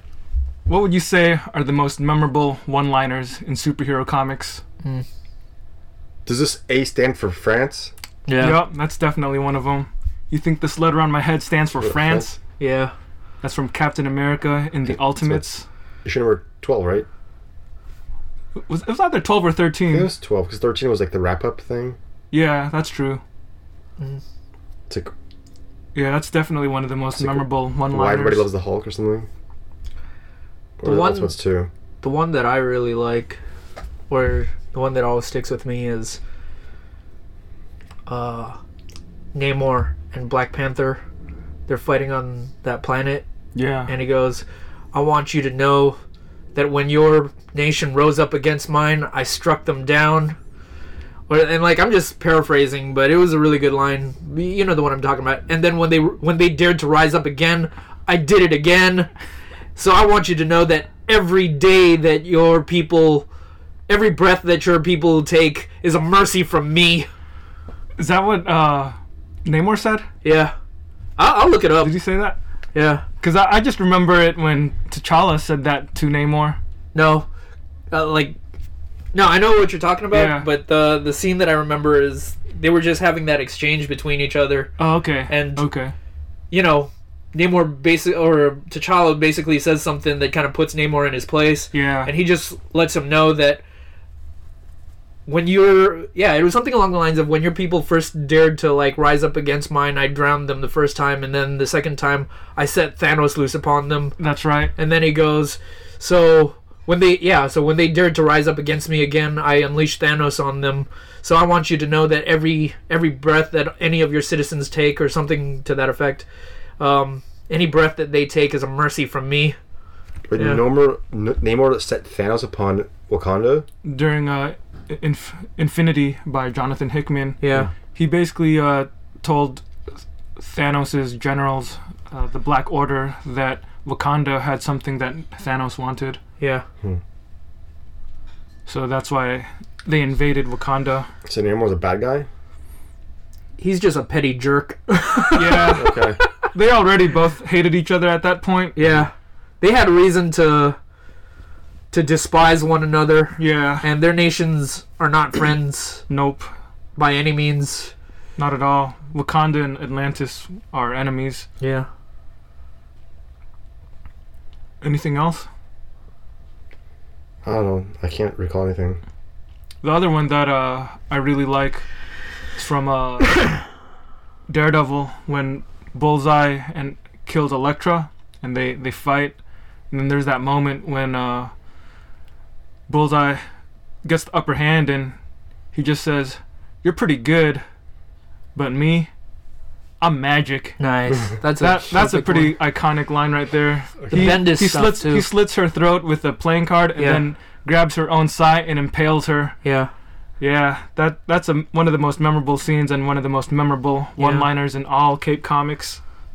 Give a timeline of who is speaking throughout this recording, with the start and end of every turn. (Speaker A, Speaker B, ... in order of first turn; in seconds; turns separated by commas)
Speaker A: 0.7-4.6, Speaker B: 6.2-7.9, Speaker C: 8.3-8.6, Speaker A: 8.4-12.4, Speaker B: 11.8-12.3, Speaker C: 12.6-12.9, Speaker A: 13.4-15.6, Speaker B: 14.8-15.4, Speaker B: 16.0-17.1, Speaker A: 18.7-20.1, Speaker B: 19.9-22.0, Speaker A: 22.3-23.2, Speaker A: 25.9-28.5, Speaker B: 27.1-29.3, Speaker B: 30.8-31.7, Speaker C: 30.8-31.3, Speaker C: 32.0-33.4, Speaker C: 34.1-36.2, Speaker C: 38.1-38.6, Speaker C: 39.3-41.0, Speaker C: 41.7-43.2, Speaker A: 43.5-43.9, Speaker C: 43.9-46.0, Speaker C: 46.5-50.4, Speaker C: 51.3-59.1, Speaker C: 59.7-63.3, Speaker C: 63.9-67.1, Speaker A: 68.0-70.0, Speaker C: 70.2-70.5, Speaker C: 71.2-71.9, Speaker A: 71.8-72.4, Speaker C: 72.7-73.0, Speaker A: 73.2-76.6, Speaker C: 76.9-77.3, Speaker C: 77.9-78.4, Speaker C: 79.1-84.7, Speaker A: 80.1-80.5, Speaker A: 84.8-85.9, Speaker C: 85.3-85.7, Speaker C: 86.5-93.6, Speaker A: 91.7-92.1, Speaker C: 95.2-104.2, Speaker A: 104.2-104.7, Speaker C: 104.8-116.3, Speaker C: 116.8-119.5, Speaker B: 120.3-123.7, Speaker C: 120.3-120.6, Speaker A: 123.8-127.4, Speaker C: 127.4-127.7, Speaker A: 127.9-136.2, Speaker C: 136.4-136.7, Speaker A: 138.7-141.1, Speaker B: 141.2-142.3, Speaker C: 143.6-146.3, Speaker A: 145.3-146.0, Speaker B: 145.7-146.2, Speaker A: 146.5-148.8, Speaker C: 148.8-150.8, Speaker C: 151.9-156.0, Speaker A: 153.4-153.8, Speaker A: 156.1-156.5, Speaker C: 156.9-157.9, Speaker A: 158.4-161.5, Speaker C: 161.6-161.9, Speaker A: 164.8-165.5, Speaker B: 167.4-169.0, Speaker A: 169.8-171.8, Speaker A: 172.6-173.5, Speaker A: 174.5-179.4, Speaker A: 179.9-181.5, Speaker A: 182.9-183.4, Speaker A: 184.0-185.1, Speaker A: 185.7-187.6, Speaker A: 188.5-189.1, Speaker A: 190.0-190.8, Speaker C: 190.8-192.6, Speaker A: 191.6-199.6, Speaker C: 194.1-195.3, Speaker C: 196.9-197.3, Speaker C: 199.6-199.9, Speaker A: 200.4-206.0, Speaker C: 204.2-204.5